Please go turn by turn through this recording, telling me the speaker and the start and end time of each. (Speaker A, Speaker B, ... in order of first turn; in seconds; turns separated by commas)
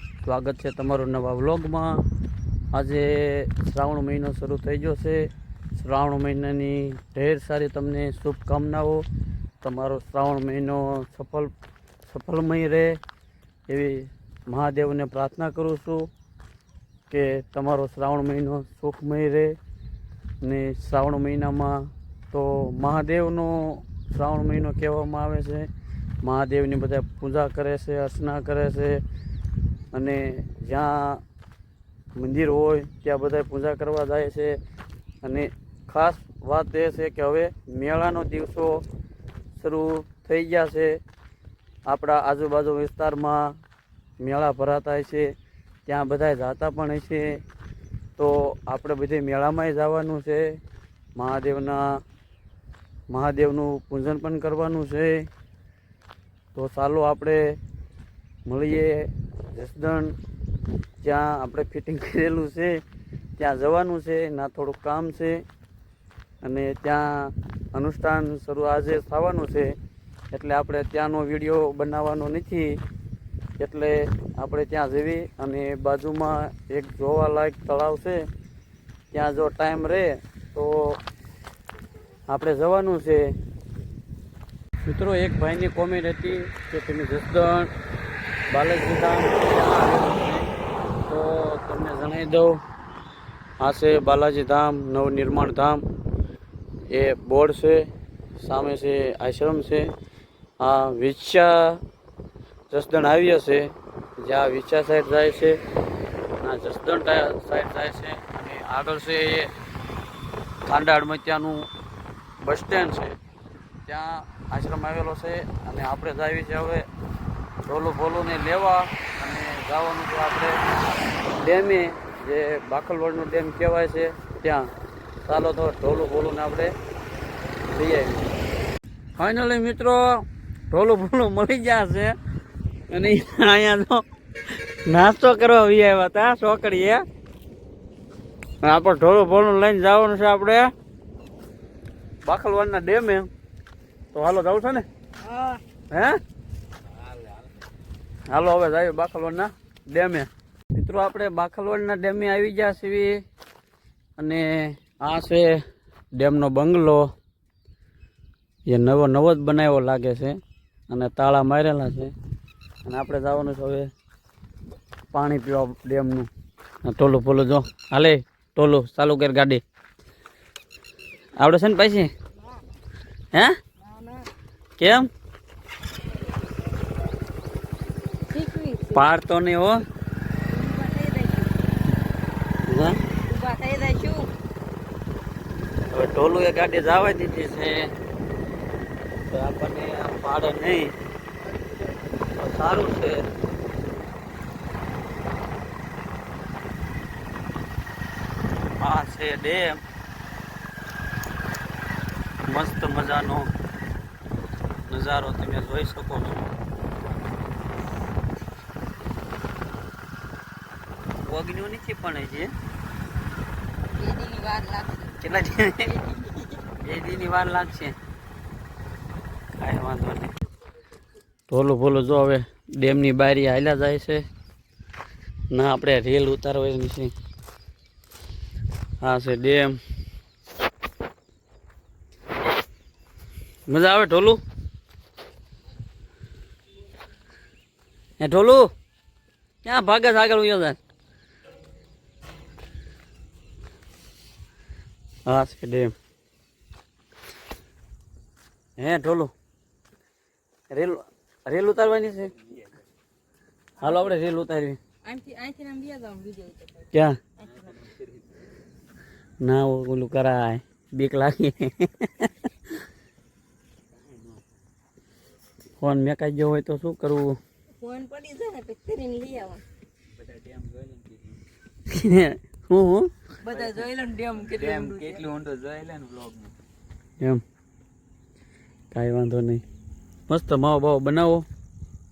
Speaker A: 0.2-2.0, Speaker A: 2.7-9.0, Speaker A: 9.6-11.5, Speaker A: 12.1-13.0, Speaker A: 13.7-16.1, Speaker A: 17.1-19.5, Speaker A: 20.4-25.7, Speaker A: 26.2-29.0, Speaker A: 29.9-31.2, Speaker A: 32.2-34.6, Speaker A: 35.2-38.8, Speaker A: 39.6-41.0, Speaker A: 41.9-43.5, Speaker A: 44.2-45.3, Speaker A: 45.9-47.4, Speaker A: 48.2-50.6, Speaker A: 51.2-51.8, Speaker A: 53.1-55.2, Speaker A: 56.5-57.5, Speaker A: 58.5-60.1, Speaker A: 61.0-62.8, Speaker A: 63.4-65.4, Speaker A: 66.4-69.8, Speaker A: 70.3-72.8, Speaker A: 73.6-78.2, Speaker A: 79.1-81.0, Speaker A: 82.3-83.3, Speaker A: 84.8-87.7, Speaker A: 88.5-90.5, Speaker A: 91.0-92.6, Speaker A: 93.6-95.8, Speaker A: 96.9-97.9, Speaker A: 98.4-99.9, Speaker A: 100.6-101.8, Speaker A: 102.7-103.7, Speaker A: 104.2-105.6, Speaker A: 106.4-109.5, Speaker A: 110.7-111.7, Speaker A: 112.4-113.2, Speaker A: 113.9-116.9, Speaker A: 117.7-120.6, Speaker A: 121.4-124.7, Speaker A: 125.2-126.7, Speaker A: 127.7-128.3, Speaker A: 129.2-132.1, Speaker A: 132.9-134.0, Speaker A: 134.9-137.0, Speaker A: 138.6-140.7, Speaker A: 142.3-143.3, Speaker A: 144.1-144.9, Speaker B: 145.2-145.6, Speaker A: 145.9-146.2, Speaker C: 147.0-147.4, Speaker A: 148.3-153.2, Speaker A: 154.2-155.6, Speaker A: 156.2-157.1, Speaker A: 158.7-160.4, Speaker A: 160.9-162.1, Speaker A: 162.8-163.9, Speaker A: 165.1-166.3, Speaker A: 166.8-169.6, Speaker A: 171.4-172.1, Speaker B: 173.8-174.3, Speaker A: 174.8-175.1, Speaker B: 178.3-179.1, Speaker A: 178.9-179.8, Speaker B: 180.5-181.6, Speaker A: 182.7-183.0, Speaker B: 183.2-184.3, Speaker A: 185.9-187.9, Speaker A: 189.3-190.9, Speaker A: 192.4-193.2, Speaker A: 198.8-199.8, Speaker A: 202.5-203.5, Speaker A: 204.9-206.5, Speaker A: 211.2-212.5, Speaker B: 213.9-216.6, Speaker A: 215.2-215.9, Speaker A: 216.8-217.9, Speaker A: 219.6-220.3, Speaker A: 221.5-224.2, Speaker A: 225.5-227.1, Speaker A: 229.0-229.8, Speaker A: 233.7-234.4, Speaker A: 238.2-238.7, Speaker A: 239.6-240.8, Speaker A: 245.3-245.9, Speaker A: 248.8-249.3, Speaker A: 250.7-252.3, Speaker B: 253.8-254.2, Speaker A: 253.8-254.8, Speaker B: 255.0-257.8, Speaker A: 256.9-257.2, Speaker C: 257.4-258.3, Speaker A: 259.4-262.3, Speaker C: 263.9-264.4, Speaker A: 265.8-267.4, Speaker B: 267.8-269.6, Speaker C: 270.1-271.4, Speaker A: 271.9-273.1, Speaker B: 273.4-275.2, Speaker C: 273.5-273.9, Speaker C: 274.4-276.6, Speaker A: 278.9-279.6, Speaker A: 280.3-281.4